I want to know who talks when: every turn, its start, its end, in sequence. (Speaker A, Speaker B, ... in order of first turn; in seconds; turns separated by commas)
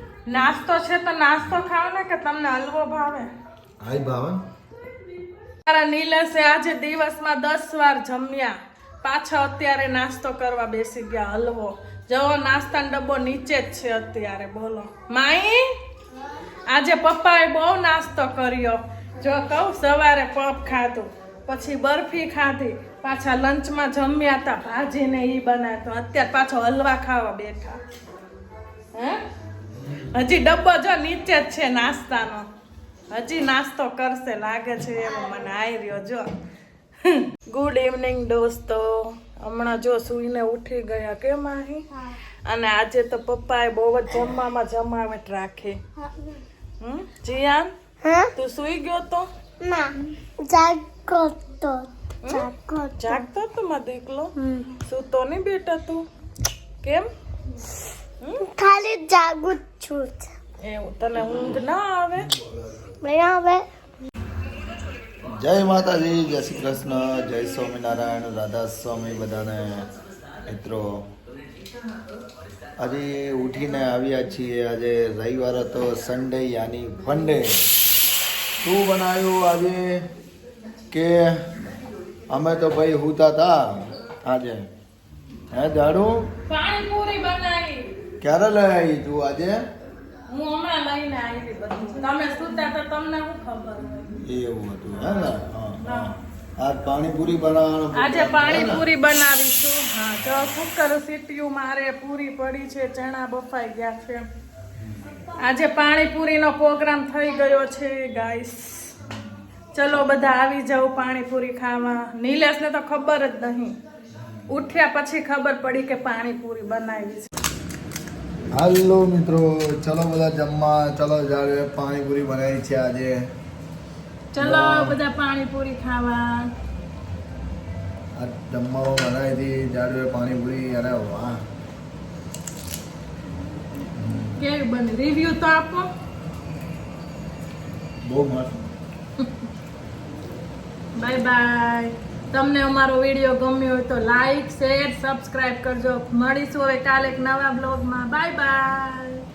Speaker A: 0.3-3.3, Speaker B: 3.8-4.4, Speaker A: 5.6-15.7, Speaker A: 16.7-27.8, Speaker A: 28.9-29.2, Speaker B: 29.7-30.2, Speaker A: 30.1-32.4, Speaker A: 33.1-36.3, Speaker A: 37.0-41.9, Speaker A: 42.5-45.8, Speaker A: 46.8-47.7, Speaker C: 48.0-48.3, Speaker A: 48.3-49.3, Speaker C: 49.6-53.2, Speaker A: 52.2-54.3, Speaker C: 54.4-54.7, Speaker A: 54.9-56.0, Speaker A: 56.8-57.1, Speaker C: 58.4-60.3, Speaker A: 60.6-62.3, Speaker B: 62.1-62.9, Speaker C: 63.0-63.7, Speaker B: 65.3-69.9, Speaker B: 70.5-71.0, Speaker B: 72.8-77.6, Speaker B: 78.6-80.0, Speaker B: 80.9-81.5, Speaker B: 82.3-84.7, Speaker B: 85.5-86.3, Speaker A: 86.5-88.0, Speaker B: 88.2-89.6, Speaker A: 90.3-94.1, Speaker B: 94.2-98.8, Speaker A: 95.0-96.1, Speaker A: 97.9-104.3, Speaker A: 105.4-108.9, Speaker A: 109.7-113.8, Speaker B: 114.1-114.4, Speaker A: 114.5-117.3, Speaker B: 118.5-123.3, Speaker A: 124.3-126.5, Speaker B: 124.4-125.0, Speaker B: 128.2-131.4, Speaker B: 133.9-134.4, Speaker A: 134.4-135.9, Speaker B: 138.0-138.6, Speaker A: 139.2-139.4, Speaker A: 140.9-149.2